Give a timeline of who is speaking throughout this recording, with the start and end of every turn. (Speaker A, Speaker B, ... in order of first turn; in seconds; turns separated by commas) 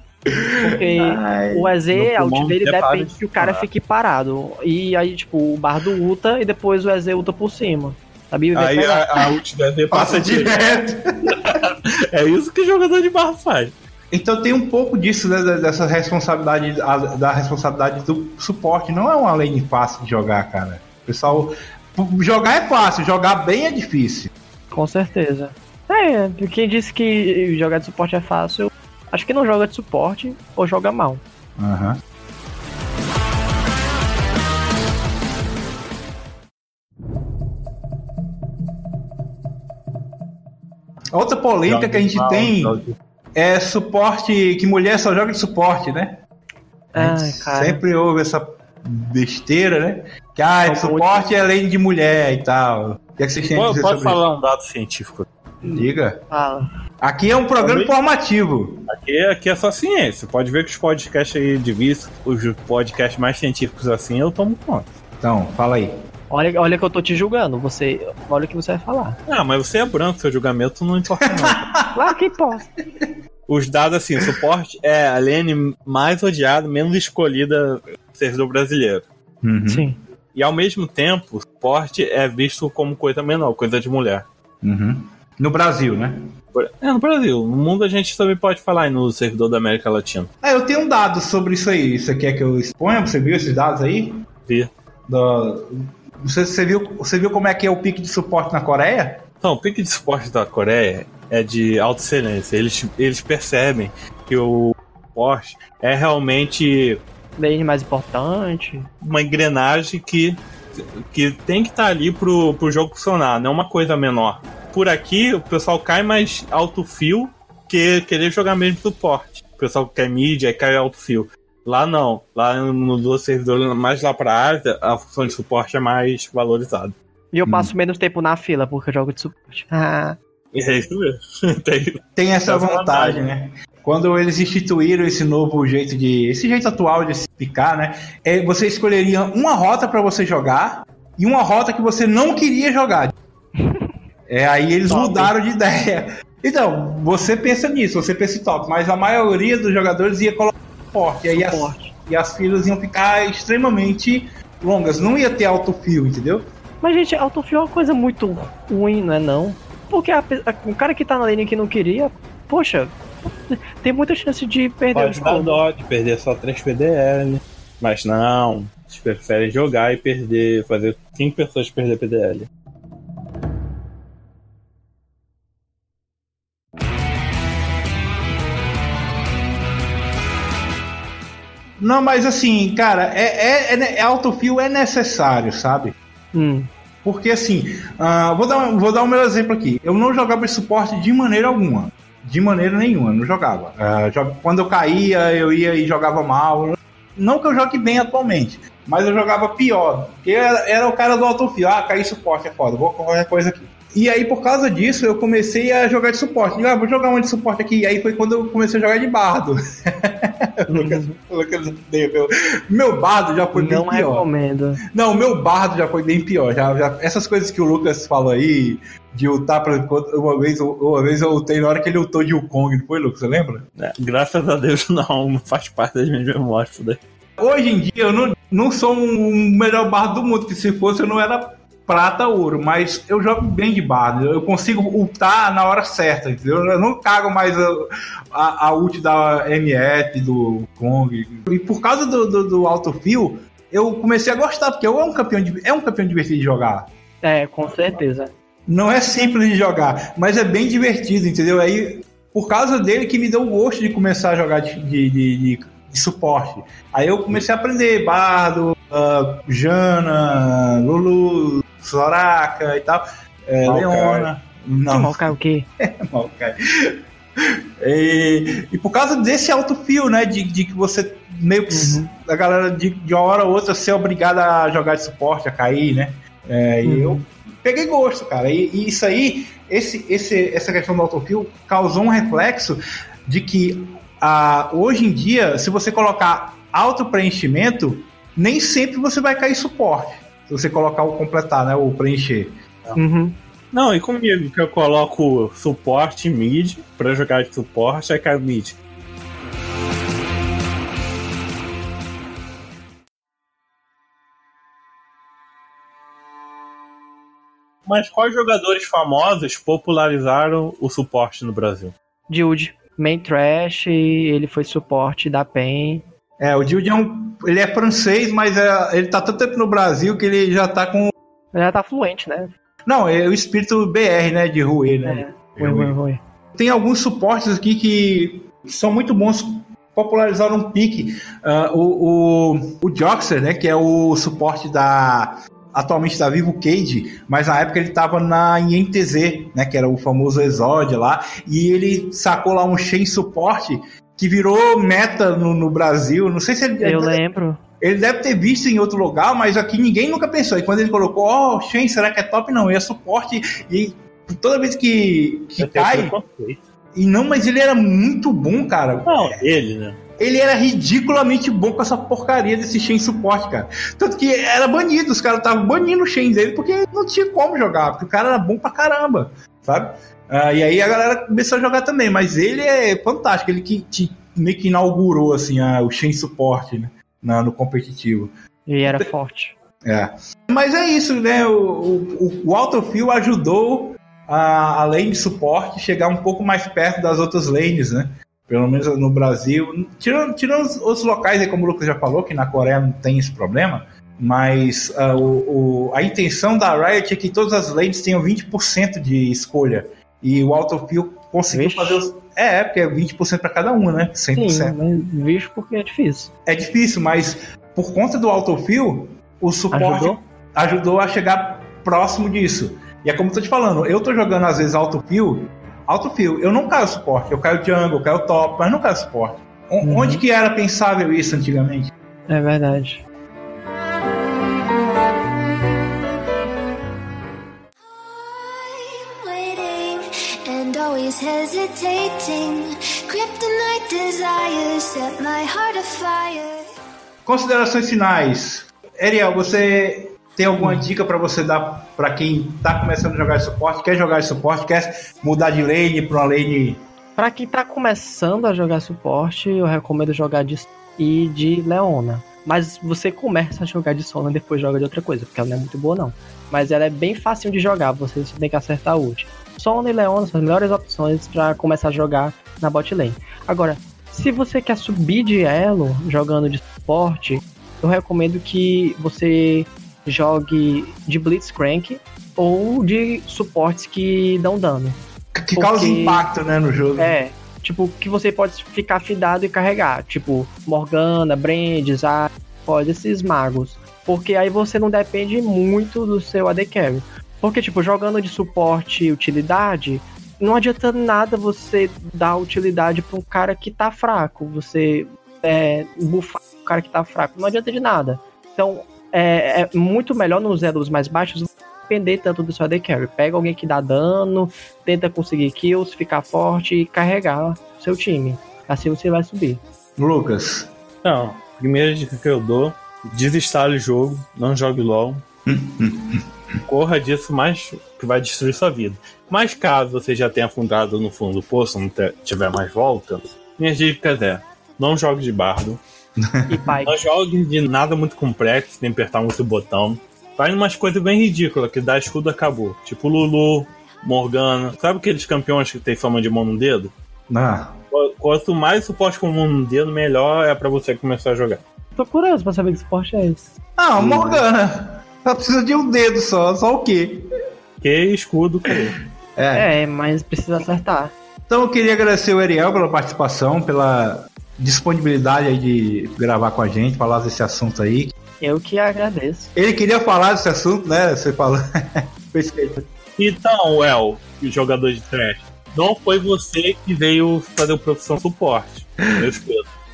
Speaker A: 0.3-1.7, Speaker B: 0.6-9.1, Speaker C: 1.9-3.7, Speaker C: 8.5-10.5, Speaker A: 9.9-11.6, Speaker C: 11.3-13.7, Speaker A: 14.1-24.3, Speaker B: 24.7-31.2, Speaker A: 31.6-32.0, Speaker A: 41.1-42.8, Speaker C: 41.6-43.0, Speaker A: 43.3-46.2, Speaker B: 46.9-47.8, Speaker A: 46.9-54.2, Speaker B: 50.6-51.2, Speaker C: 53.5-55.3, Speaker A: 55.6-56.2, Speaker B: 55.6-56.7, Speaker A: 57.0-58.8, Speaker C: 57.6-57.9, Speaker C: 58.9-64.9, Speaker A: 65.2-65.9, Speaker B: 66.3-69.2, Speaker C: 69.3-71.6, Speaker A: 71.2-72.0, Speaker B: 71.9-72.7, Speaker C: 73.5-79.0, Speaker A: 79.4-79.9, Speaker B: 79.7-80.0, Speaker C: 80.3-84.3, Speaker A: 84.6-86.2, Speaker C: 86.5-90.3, Speaker A: 90.4-94.2, Speaker A: 95.1-95.7, Speaker A: 96.2-99.2, Speaker C: 99.4-107.0, Speaker B: 107.4-108.9, Speaker C: 109.0-126.9, Speaker B: 127.3-130.2, Speaker A: 127.5-127.7, Speaker C: 130.5-133.2, Speaker A: 132.2-143.1, Speaker B: 143.6-143.9, Speaker A: 144.3-156.4, Speaker B: 144.9-145.3, Speaker B: 151.4-151.9, Speaker B: 156.8-165.5, Speaker C: 164.9-172.5, Speaker A: 181.8-185.9, Speaker B: 186.3-186.7, Speaker A: 187.0-214.2, Speaker B: 210.7-211.2, Speaker B: 213.5-214.8, Speaker A: 214.9-223.7, Speaker C: 223.8-227.0, Speaker A: 227.4-246.9, Speaker B: 247.2-248.3, Speaker A: 248.7-265.3, Speaker C: 263.6-264.3, Speaker B: 264.9-265.7, Speaker A: 265.8-292.6, Speaker B: 271.7-272.1, Speaker B: 276.8-277.2, Speaker B: 292.9-293.4, Speaker C: 293.7-298.8, Speaker C: 307.9-311.9, Speaker B: 312.3-316.1, Speaker A: 316.4-321.1, Speaker B: 321.5-322.5, Speaker A: 322.9-326.0, Speaker B: 325.0-326.2, Speaker A: 326.5-347.2, Speaker B: 346.8-347.6, Speaker A: 347.8-356.1, Speaker C: 355.6-356.7, Speaker A: 356.9-359.4, Speaker C: 359.0-360.0, Speaker A: 360.2-378.3, Speaker B: 378.7-379.5, Speaker A: 379.8-404.8, Speaker B: 401.5-402.0, Speaker B: 404.3-406.3, Speaker A: 406.4-421.9, Speaker B: 409.7-410.2, Speaker B: 419.8-420.2, Speaker B: 422.3-423.0, Speaker D: 427.8-436.7, Speaker A: 437.2-446.8, Speaker B: 440.6-440.8, Speaker B: 447.2-475.0, Speaker A: 475.3-477.1, Speaker B: 475.5-476.2, Speaker B: 477.0-509.6, Speaker A: 510.0-510.7, Speaker C: 511.0-515.2, Speaker A: 515.5-516.2, Speaker C: 516.7-525.8, Speaker A: 526.2-526.7, Speaker B: 526.5-527.0, Speaker C: 526.9-536.9, Speaker A: 537.3-537.7, Speaker C: 537.9-541.6, Speaker B: 542.0-543.5, Speaker A: 543.8-547.3, Speaker B: 544.0-544.4, Speaker C: 547.8-549.0, Speaker A: 549.4-549.7, Speaker B: 549.5-551.1, Speaker A: 551.5-558.1, Speaker B: 558.4-559.5, Speaker A: 559.5-562.8, Speaker C: 563.2-569.6